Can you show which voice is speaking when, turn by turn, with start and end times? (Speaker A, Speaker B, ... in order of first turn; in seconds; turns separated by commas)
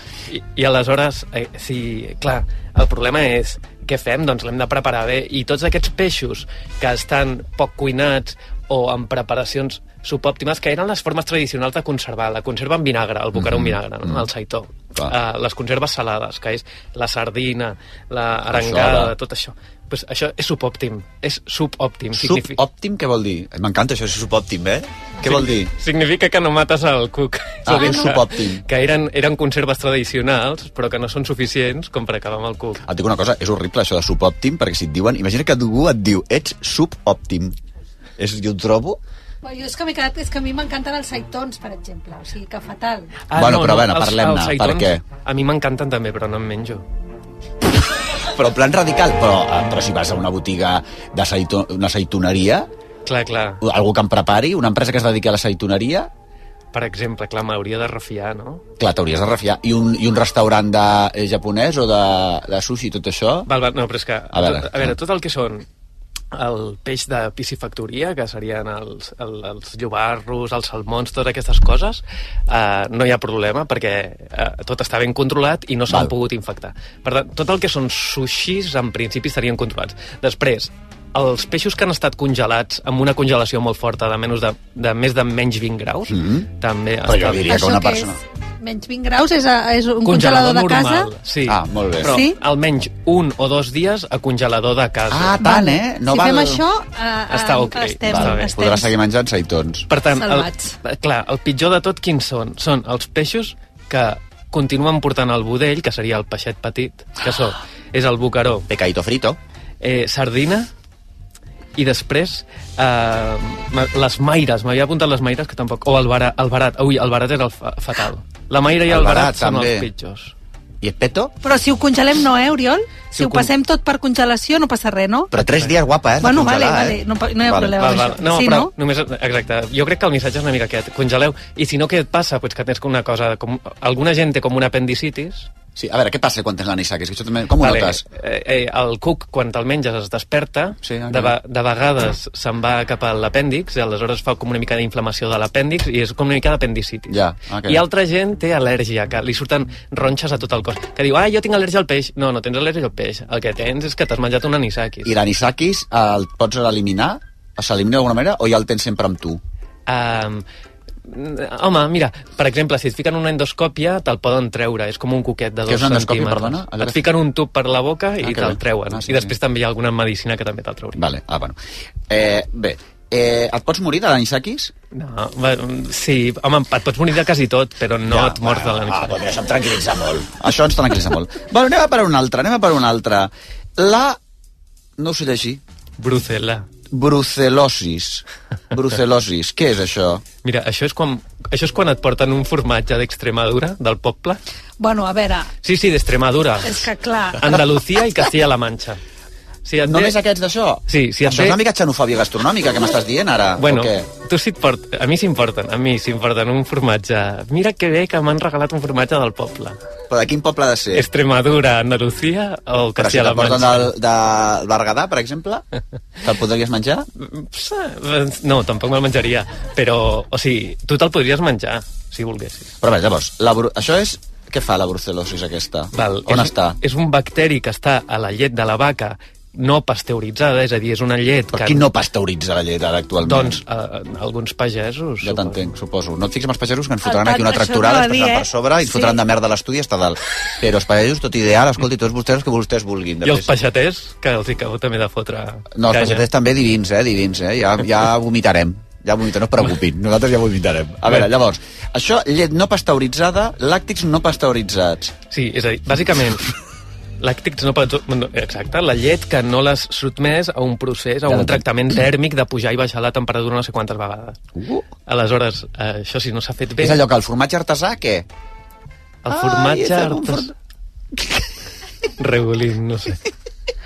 Speaker A: 0.3-22.6, Speaker B: 13.3-14.2, Speaker B: 18.5-19.1, Speaker B: 22.1-25.7, Speaker A: 25.2-32.8, Speaker B: 27.6-28.6, Speaker C: 27.8-28.1, Speaker B: 32.9-37.5, Speaker B: 38.2-39.0, Speaker C: 39.4-43.2, Speaker A: 43.3-46.8, Speaker B: 43.4-45.0, Speaker B: 48.3-52.7, Speaker A: 53.0-53.6, Speaker B: 53.6-56.1, Speaker A: 56.7-58.6, Speaker B: 58.8-63.5, Speaker A: 63.5-65.7, Speaker B: 64.3-64.9, Speaker A: 66.3-87.7, Speaker B: 86.1-86.5, Speaker B: 87.0-88.2, Speaker C: 87.5-91.1, Speaker A: 90.0-95.4, Speaker B: 91.5-92.1, Speaker C: 92.0-92.3, Speaker B: 95.1-96.6, Speaker C: 95.4-98.9, Speaker A: 97.3-98.5, Speaker B: 98.1-99.9, Speaker A: 99.9-108.7, Speaker C: 100.1-100.7, Speaker B: 108.7-109.4, Speaker A: 109.8-110.7, Speaker A: 111.8-120.3, Speaker B: 118.9-119.9, Speaker B: 120.8-121.3, Speaker C: 121.4-125.3, Speaker A: 123.1-123.5, Speaker B: 125.3-127.9, Speaker A: 125.4-125.7, Speaker C: 126.2-128.7, Speaker A: 127.8-135.5, Speaker B: 135.8-138.0, Speaker A: 137.6-155.1, Speaker B: 140.8-141.3, Speaker B: 147.1-147.8, Speaker B: 155.0-159.4, Speaker A: 159.9-160.4, Speaker A: 161.1-171.0, Speaker B: 165.7-167.1, Speaker B: 168.2-169.3, Speaker B: 171.0-171.6, Speaker B: 172.1-174.7, Speaker A: 174.9-179.2, Speaker B: 178.1-184.2, Speaker B: 185.0-185.6, Speaker A: 186.0-186.7, Speaker B: 186.9-190.2, Speaker A: 190.4-194.4, Speaker C: 194.8-195.5, Speaker A: 195.6-199.0, Speaker C: 196.6-197.6, Speaker A: 199.7-200.2, Speaker B: 199.8-204.1, Speaker A: 200.9-201.6, Speaker A: 203.6-209.8, Speaker B: 210.1-211.1, Speaker A: 210.9-213.9, Speaker B: 213.0-215.6, Speaker B: 216.2-217.1, Speaker A: 217.2-222.8, Speaker B: 222.8-226.8, Speaker A: 225.9-231.8, Speaker B: 231.5-233.6, Speaker A: 233.2-235.6, Speaker B: 235.2-243.5, Speaker C: 237.0-239.2, Speaker A: 243.2-246.2, Speaker B: 245.8-255.1, Speaker A: 255.3-256.4, Speaker A: 257.2-264.4, Speaker B: 261.3-261.6, Speaker B: 264.6-264.9, Speaker A: 265.1-267.0, Speaker B: 266.8-268.2, Speaker A: 269.2-270.5, Speaker B: 269.3-270.5, Speaker A: 272.2-273.2